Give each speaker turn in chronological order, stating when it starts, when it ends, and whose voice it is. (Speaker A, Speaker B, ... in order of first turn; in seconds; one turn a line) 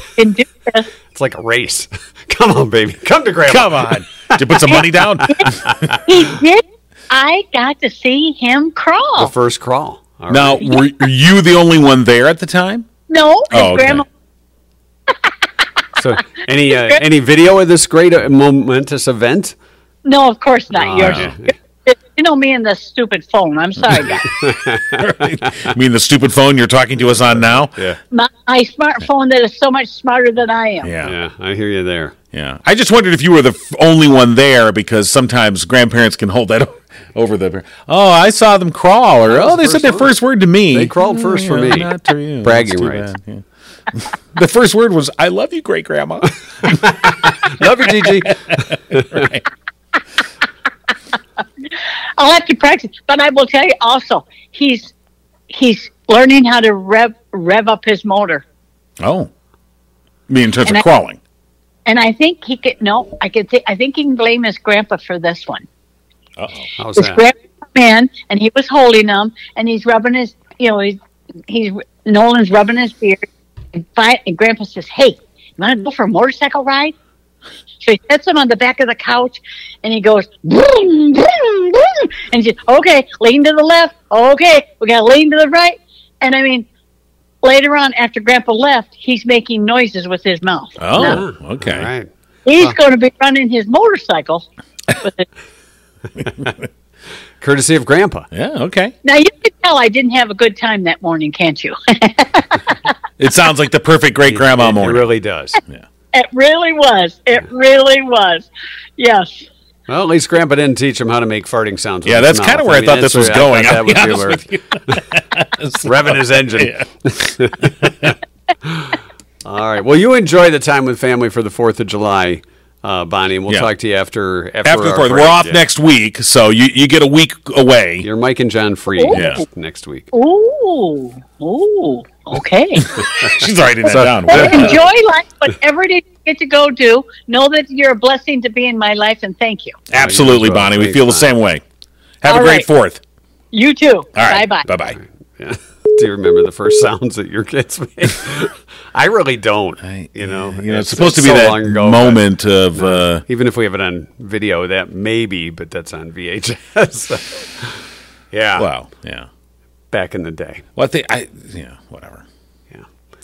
Speaker A: 0.1-0.9
Speaker B: 1.1-6.0
Speaker C: 3.5-5.7
Speaker A: 6.0-9.3
Speaker B: 9.2-10.8
Speaker C: 10.3-12.9
Speaker A: 13.1-14.0
Speaker C: 13.5-14.0
Speaker B: 16.0-19.5
Speaker A: 20.0-24.3
Speaker B: 20.8-21.4
Speaker C: 20.9-21.4
Speaker B: 24.4-25.5
Speaker C: 25.0-27.8
Speaker B: 27.7-28.0
Speaker A: 28.1-30.9
Speaker C: 30.8-31.2
Speaker B: 31.0-32.1
Speaker C: 32.3-46.9
Speaker B: 39.3-40.1
Speaker B: 40.7-43.1
Speaker B: 46.6-49.3
Speaker C: 47.6-49.4
Speaker A: 52.2-54.9
Speaker A: 55.5-58.4
Speaker C: 59.0-59.3
Speaker C: 60.3-61.2
Speaker A: 61.9-65.6
Speaker C: 66.4-66.7
Speaker B: 66.8-67.2
Speaker A: 67.0-71.0
Speaker A: 71.5-76.9
Speaker A: 77.8-86.7
Speaker A: 87.4-91.2
Speaker C: 90.8-91.9
Speaker B: 90.9-92.1
Speaker A: 92.5-94.5
Speaker A: 95.0-95.2
Speaker B: 97.4-98.3
Speaker C: 98.3-98.9
Speaker A: 99.0-102.7
Speaker C: 103.2-105.1
Speaker B: 104.2-105.6
Speaker A: 106.1-109.5
Speaker B: 109.9-115.0
Speaker C: 112.0-117.3
Speaker B: 115.8-125.6
Speaker C: 124.6-128.1
Speaker B: 128.0-130.1
Speaker C: 129.1-129.4
Speaker A: 130.1-132.9
Speaker C: 132.8-134.8
Speaker B: 133.2-134.8
Speaker A: 134.3-139.8
Speaker C: 139.9-141.6
Speaker B: 139.9-141.3
Speaker C: 142.2-143.0
Speaker A: 142.3-142.7
Speaker A: 143.5-144.7
Speaker C: 144.1-145.0
Speaker B: 145.0-158.7
Speaker C: 149.8-153.2
Speaker C: 158.6-159.3
Speaker B: 159.9-160.6
Speaker C: 160.8-162.2